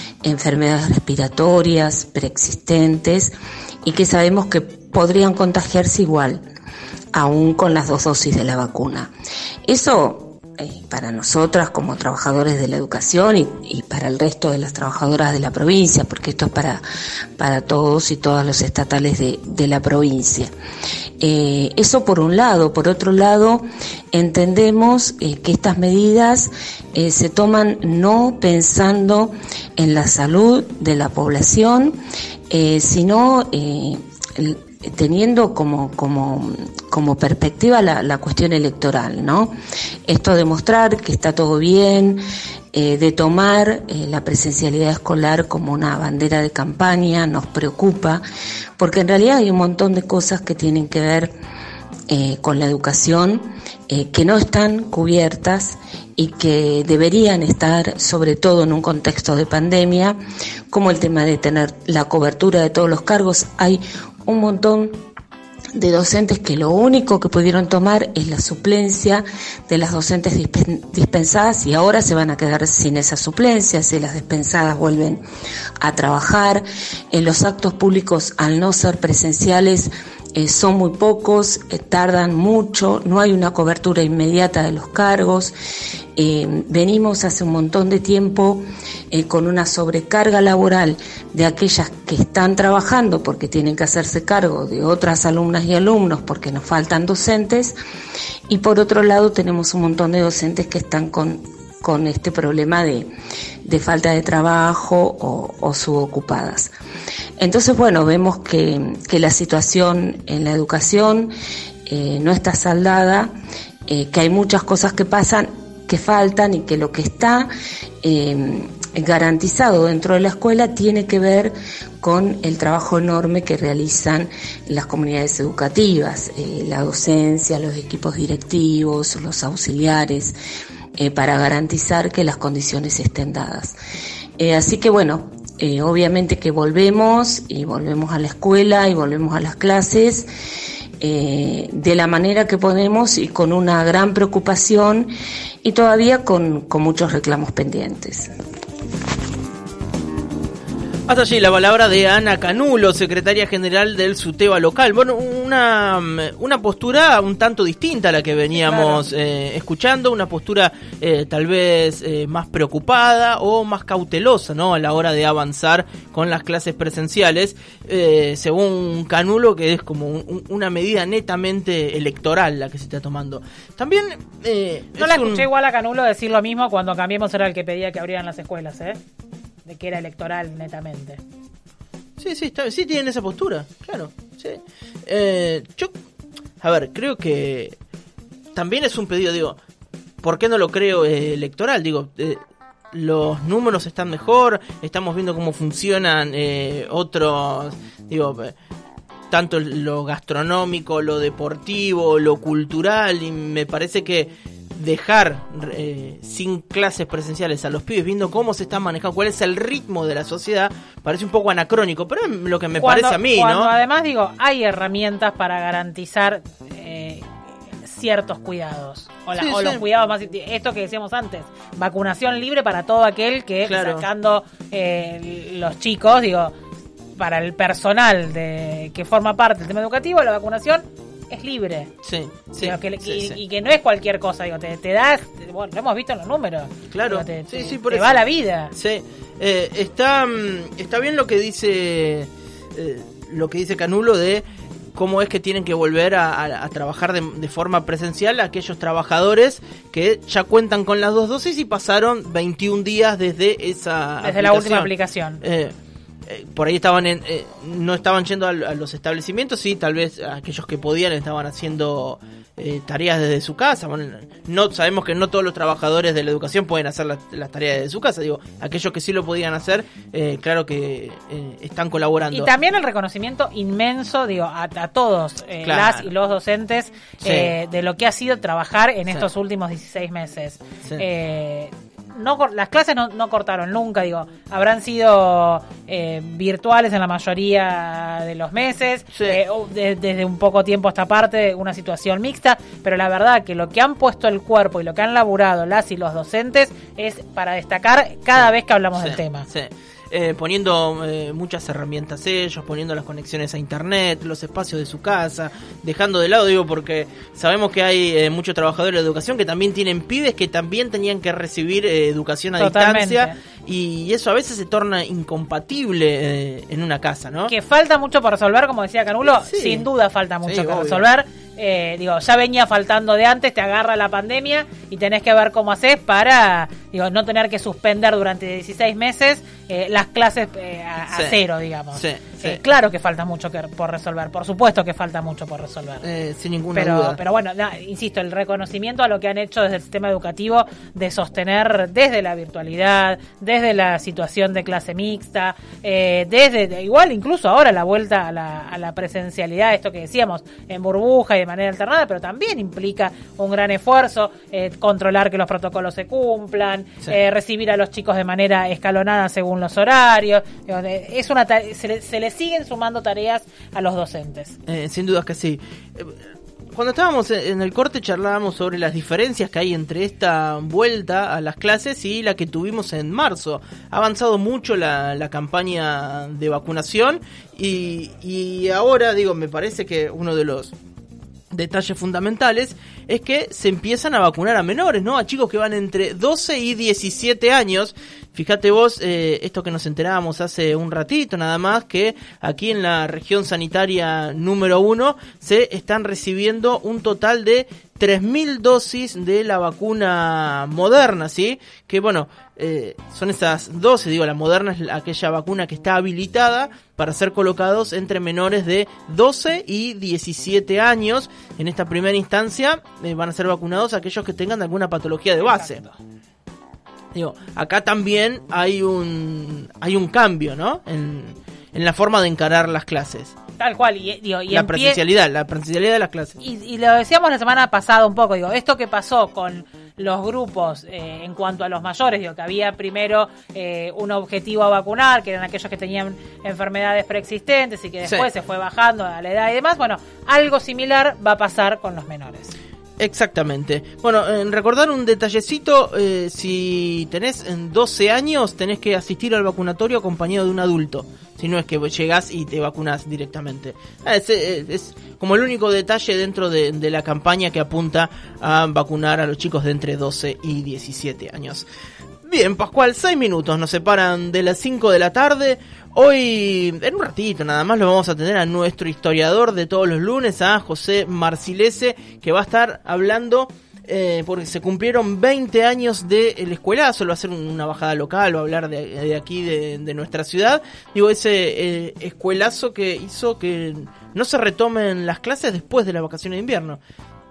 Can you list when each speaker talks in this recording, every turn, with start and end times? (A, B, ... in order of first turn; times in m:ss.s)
0:00.2-0:06.4 A
0:07.1-0:09.1 A
0:09.7-0:16.8 A
0:17.4-0:20.5 A
0:21.2-0:39.5 A
0:40.1-0:42.2 A
0:42.7-0:48.2 A
0:48.8-0:51.3 A
0:52.1-1:00.2 A
1:00.7-1:05.0 A
1:05.7-1:15.2 A
1:15.8-1:25.5 A
1:26.2-1:37.8 A
1:38.5-1:43.1 A
1:43.6-1:46.7 A
1:47.4-1:51.3 A
1:51.9-1:53.3 A
1:53.9-1:57.5 A
1:58.0-2:10.4 A
2:11.0-2:13.8 A
2:14.4-2:20.3 A
2:21.0-2:25.1 A
2:25.6-2:28.3 A
2:31.1-2:55.5 B
2:38.6-2:39.0 C
2:55.0-2:59.0 C
2:59.6-3:01.2 C
3:02.2-3:05.9 B
3:06.6-3:07.8 B
3:08.6-3:09.6 B
3:10.2-3:12.4 B
3:12.9-3:18.6 B
3:19.3-3:33.7 B
3:32.8-3:37.3 C
3:37.8-3:46.5 C
3:39.4-3:39.8 B
3:43.7-3:44.1 B
3:47.2-3:51.9 C
3:52.0-3:53.4 B
3:52.6-3:58.7 C
3:56.9-3:58.2 B
3:58.7-4:14.9 B
4:14.2-4:15.4 C
4:15.4-4:15.7 B
4:16.3-4:32.5 B
4:32.3-4:59.5 C
4:35.6-4:36.1 B
4:37.2-4:37.5 B
4:49.1-4:49.4 B
4:59.0-5:17.5 B
5:12.6-5:13.3 C
5:17.5-5:36.0 C
5:19.2-5:19.9 B
5:20.4-5:21.1 B
5:31.1-5:31.4 B
5:31.9-5:32.6 B
5:36.0-5:37.2 B
5:36.8-6:04.6 C
6:04.7-6:06.2 B
6:06.7-6:20.7 B
6:21.5-6:55.8 B
6:55.4-6:56.0 C
6:57.2-7:03.4 B
7:03.6-7:05.0 C
7:04.5-7:06.4 B
7:06.4-7:22.5 C
7:23.0-7:41.7 B
7:42.3-8:06.8 B